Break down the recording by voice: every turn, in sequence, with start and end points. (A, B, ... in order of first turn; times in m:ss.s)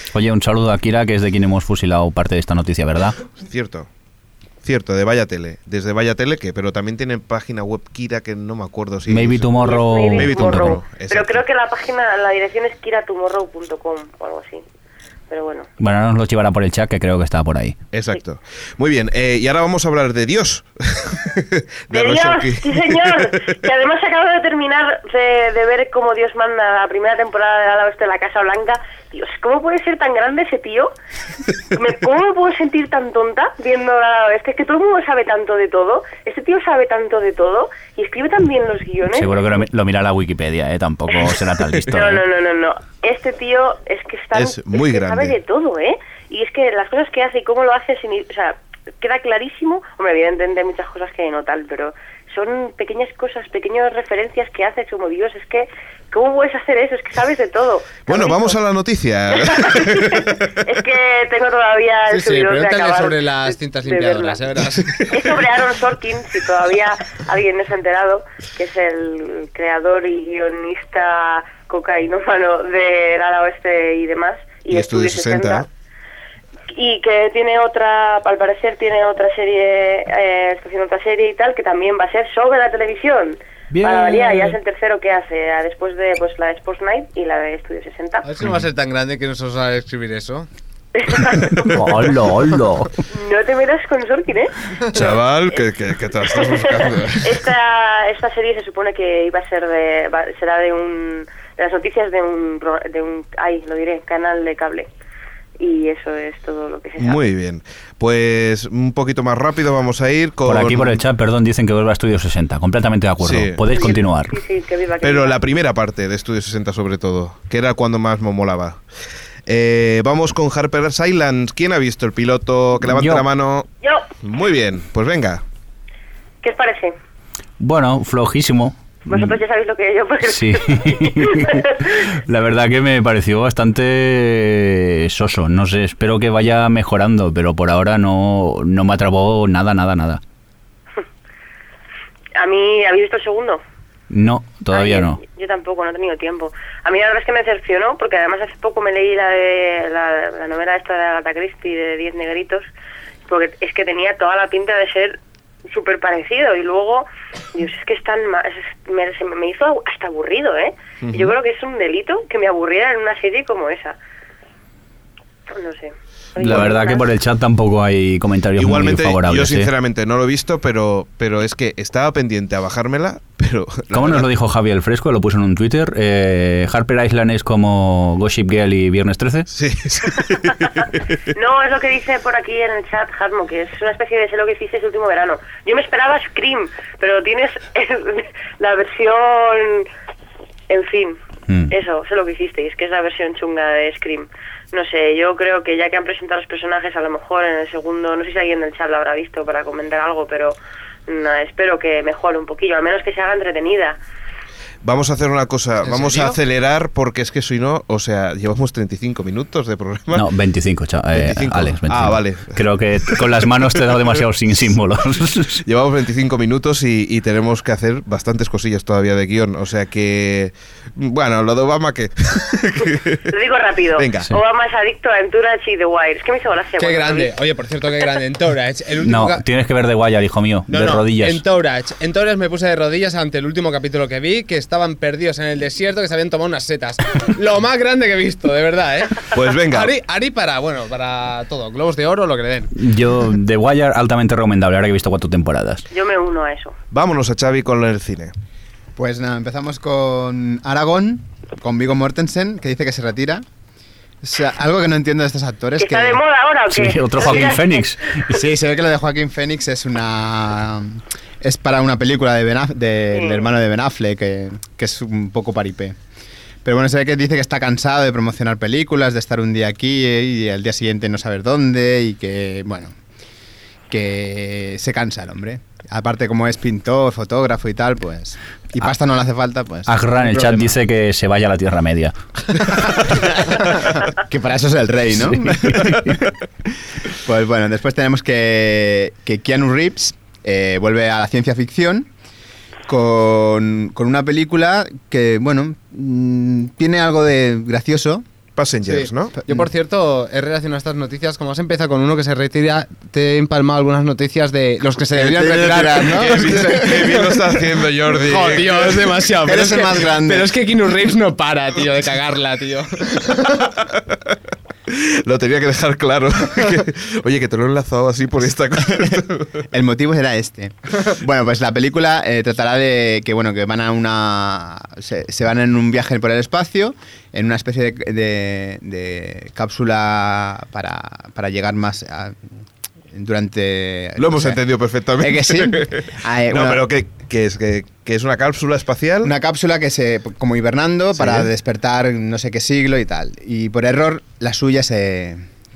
0:00.1-0:03.2 A
0:03.4-0:03.9 B
0:04.6-0:11.4 B
0:09.1-0:10.8 A
0:09.6-0:14.6 C
0:15.3-0:15.7 C
0:15.8-0:17.8 A
0:17.9-0:23.6 B
0:21.9-0:30.9 C
0:31.7-0:39.5 C
0:39.1-0:42.2 A
0:41.9-0:58.6 C
0:44.3-0:45.4 B
0:58.1-1:00.7 B
0:59.4-1:04.4 C
1:02.1-1:05.4 D
1:05.1-1:15.7 C
1:14.7-1:15.7 B
1:16.7-1:28.2 C
1:23.7-1:24.6 A
1:28.2-1:30.5 D
1:31.0-1:31.9 C
1:31.6-1:33.0 A
1:33.1-1:34.7 C
1:34.9-1:37.5 B
1:36.3-1:44.9 C
1:45.6-1:47.2 C
1:47.0-1:51.0 B
1:50.5-1:54.3 A
1:53.2-1:53.6 B
1:53.7-1:55.4 C
1:55.0-1:58.8 B
1:59.5-2:03.7 B
2:02.8-2:03.3 A
2:03.8-2:04.1 C
2:04.2-2:05.4 B
2:06.4-2:07.0 C
2:07.6-2:09.4 A
2:09.1-2:12.0 C
2:10.2-2:20.2 A
2:22.4-2:23.6 C
2:24.1-2:25.2 A
2:24.7-2:32.7 C
2:33.3-2:44.0 C
2:41.0-2:41.4 B
2:45.5-2:47.1 C
2:46.4-2:49.7 A
2:48.6-2:54.3 B
2:53.9-2:59.5 A
2:59.5-3:01.0 B
3:01.3-3:09.9 C
3:10.7-3:11.2 C
3:11.7-3:20.6 C
3:21.1-3:24.0 C
3:24.8-3:30.3 B
3:25.8-3:26.4 D
3:30.1-3:35.6 A
3:31.1-3:33.9 B
3:35.6-3:43.3 B
3:43.3-3:47.3 C
3:44.0-3:44.3 B
3:46.8-3:49.4 D
3:49.0-3:51.4 A
3:50.7-4:02.8 D
3:59.3-3:59.9 B
4:02.8-4:05.8 A
4:05.9-4:06.8 C
4:06.9-4:08.3 B
4:09.0-4:13.4 E
4:14.2-4:16.2 E
4:15.8-4:17.8 C
4:16.7-4:18.2 A
4:18.3-4:26.0 E
4:23.1-4:23.4 C
4:26.6-4:33.0 E
4:33.9-4:40.6 E
4:39.9-4:42.2 A
4:42.7-4:46.3 E
4:45.2-4:46.2 A
4:47.1-4:52.1 E
4:52.9-4:58.2 E
4:58.6-4:59.4 B
4:58.9-5:07.5 D
5:05.1-5:07.0 E
5:06.1-5:09.1 B
5:08.1-5:13.7 D
5:09.4-5:10.5 E
5:13.8-5:14.4 B
5:14.9-5:19.6 B
5:19.7-5:32.4 E
5:33.1-5:34.6 E
5:34.2-5:39.3 B
5:35.2-5:36.8 E
5:39.2-5:45.5 E
5:41.2-5:41.5 B